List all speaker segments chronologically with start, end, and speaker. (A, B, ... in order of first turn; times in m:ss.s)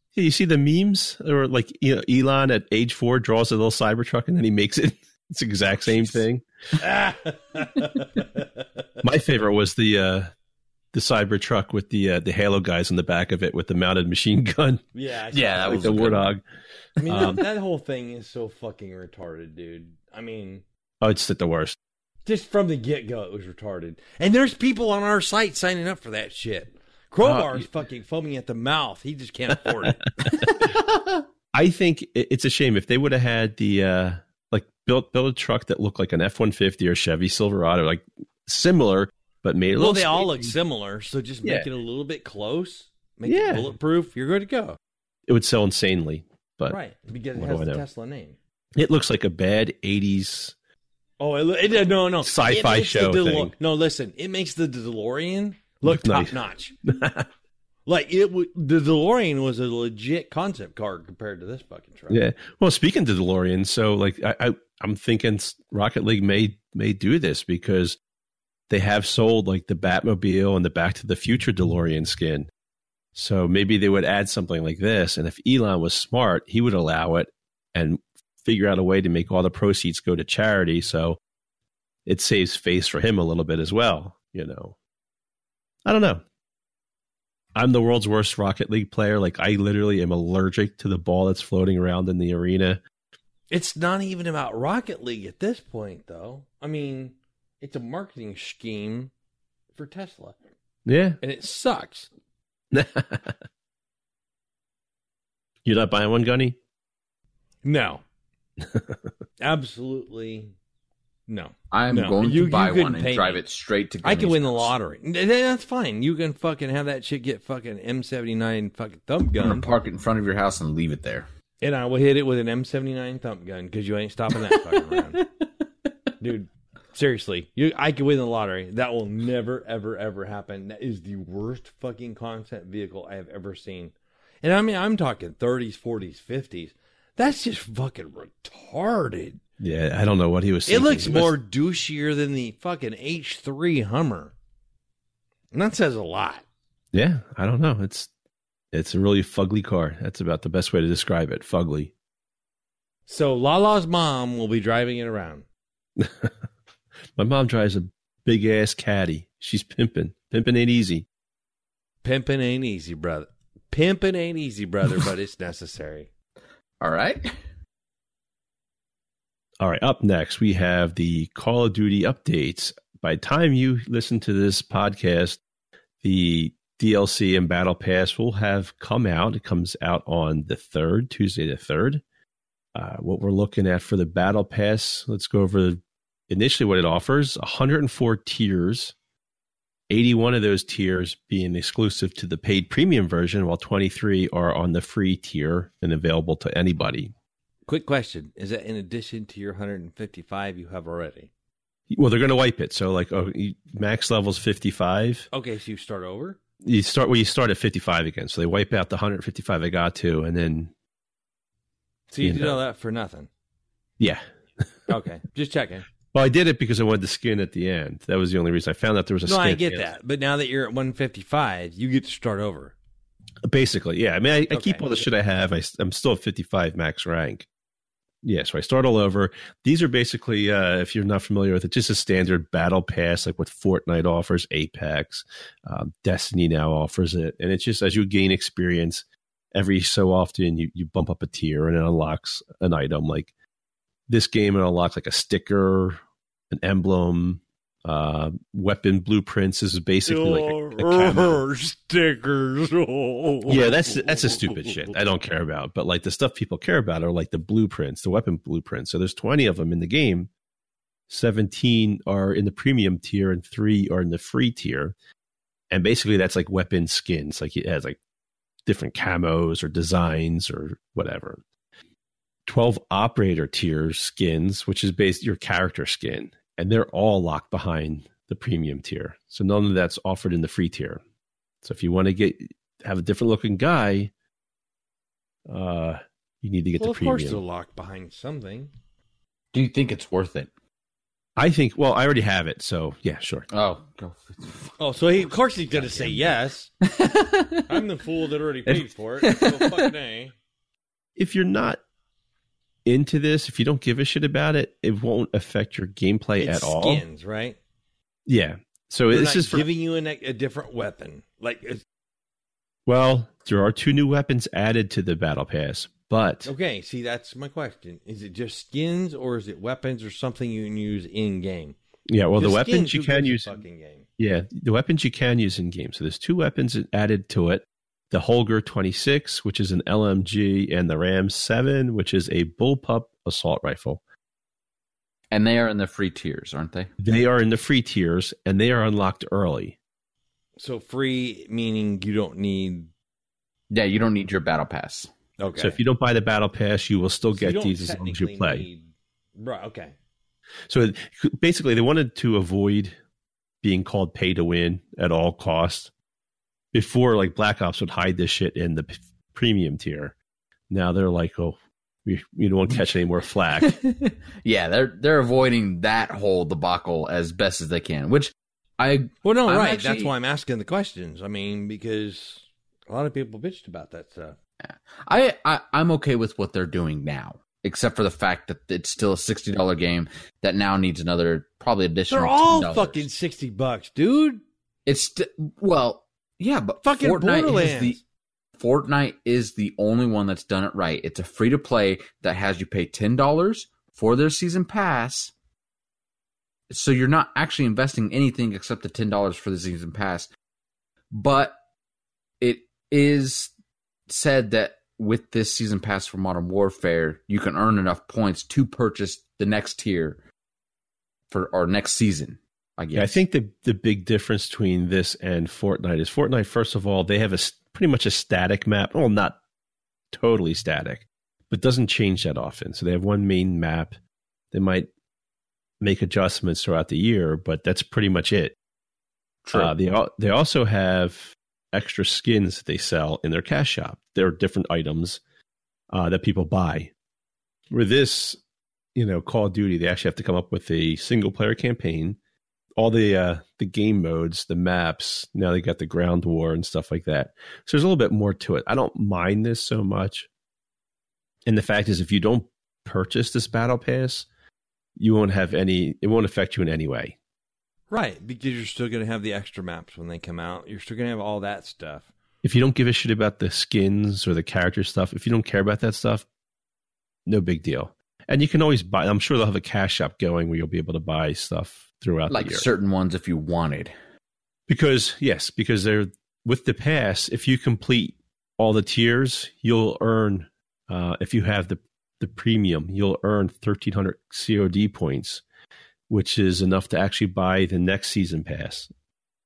0:00.2-0:06.4 A
0:06.8-0:08.8 B
0:09.0-0:10.3 A
0:10.9-0:14.8 A
0:14.9-0:16.1 B
0:15.3-0:16.3 C
0:15.6-0:16.4 A
0:17.0-0:20.6 B
0:17.1-0:17.4 A
0:21.0-0:21.8 A
0:22.2-0:30.0 B
0:27.2-0:27.6 A
0:30.2-0:30.8 A
0:31.5-0:40.6 A
0:39.8-0:44.8 B
0:41.4-0:41.7 A
0:43.3-0:43.7 A
0:45.3-0:46.8 A
0:46.7-0:48.4 B
0:47.4-0:47.8 A
0:48.8-0:50.5 A
0:51.2-0:56.8 B
0:52.2-0:53.5 A
0:55.8-0:57.3 A
0:57.9-1:02.2 B
1:02.1-1:08.0 A
1:08.7-1:12.5 A
1:13.2-1:21.2 A
1:22.1-1:24.8 A
1:25.9-1:26.2 A
1:27.6-1:32.8 A
1:33.5-1:39.1 B
1:39.8-1:40.4 B
1:40.9-1:41.2 A
1:41.2-1:42.1 B
1:42.7-1:43.3 A
1:45.6-1:46.6 A
1:47.6-1:48.0 B
1:49.4-1:50.5 B
1:51.3-1:53.4 B
1:51.7-1:54.7 C
1:54.0-1:59.7 B
1:59.4-2:01.3 C
2:01.6-2:05.2 B
2:06.2-2:19.4 B
2:19.6-2:21.4 A
2:20.7-2:24.3 B
2:25.5-2:26.4 B
2:26.9-2:28.1 A
2:28.7-2:31.9 A
2:33.1-2:35.5 B
2:36.0-2:36.3 A
2:37.2-2:41.0 A
2:42.0-2:46.1 B
2:46.8-2:47.4 C
2:49.6-2:55.4 A
2:56.0-3:02.0 A
3:02.8-3:09.0 A
3:09.9-3:17.1 A
3:17.7-3:21.3 B
3:21.9-3:25.3 A
3:25.3-3:26.4 B
3:26.6-3:30.7 A
3:32.1-3:33.3 B
3:32.2-3:32.6 A
3:34.9-3:35.9 B
3:36.1-3:39.9 A
3:39.3-3:42.7 B
3:43.4-3:47.5 A
3:44.5-3:45.0 B
3:48.2-4:03.3 A
4:04.1-4:06.0 A
4:06.5-4:11.4 A
4:10.1-4:14.9 B
4:13.5-4:20.3 A
4:21.1-4:25.0 A
4:25.7-4:28.0 A
4:28.7-4:31.4 A
4:32.5-4:41.0 A
4:41.6-4:44.1 A
4:45.5-4:47.4 A
4:46.8-4:48.7 B
4:49.5-4:50.5 C
4:51.4-4:53.5 A
4:53.5-4:54.8 C
4:54.8-4:56.7 B
4:55.7-4:57.7 C
4:57.7-5:00.3 B
4:59.2-4:59.8 C
5:01.2-5:01.8 A
5:02.9-5:07.0 A
5:06.4-5:07.6 B
5:08.3-5:09.7 A
5:09.1-5:11.8 B
5:12.9-5:16.5 A
5:16.4-5:21.8 B
5:22.1-5:23.6 A
5:22.4-5:24.1 B
5:24.2-5:34.0 A
5:35.3-5:36.9 C
5:37.0-5:39.8 A
5:40.6-5:42.9 B
5:43.7-5:45.1 C
5:45.4-5:45.8 B
5:45.6-5:48.7 A
5:47.3-5:50.0 B
5:50.7-5:53.0 A
5:53.6-5:55.9 A
5:56.7-6:00.2 A
6:00.7-6:03.8 A
6:03.6-6:10.1 C
6:09.2-6:14.4 B
6:14.6-6:23.1 C
6:22.1-6:24.4 B
6:24.9-6:28.0 C
6:26.8-6:28.0 B
6:28.6-6:35.3 C
6:36.7-6:40.3 C
6:41.1-6:41.6 C
6:42.4-6:43.5 C
6:44.1-6:50.2 C
6:51.3-6:53.2 C
6:52.9-6:59.4 A
7:00.1-7:04.0 A
7:04.5-7:04.9 A
7:05.8-7:08.6 A
7:09.4-7:09.7 C
7:09.5-7:15.2 A
7:15.9-7:16.9 A
7:17.7-7:18.4 A
7:19.0-7:22.2 A
7:22.8-7:30.3 A
7:31.5-7:34.3 A
7:35.0-7:37.2 A
7:37.9-7:42.1 B
7:42.4-7:46.2 A
7:47.3-7:52.6 A
7:52.3-7:53.9 C
7:54.7-8:05.4 A
8:06.1-8:08.9 A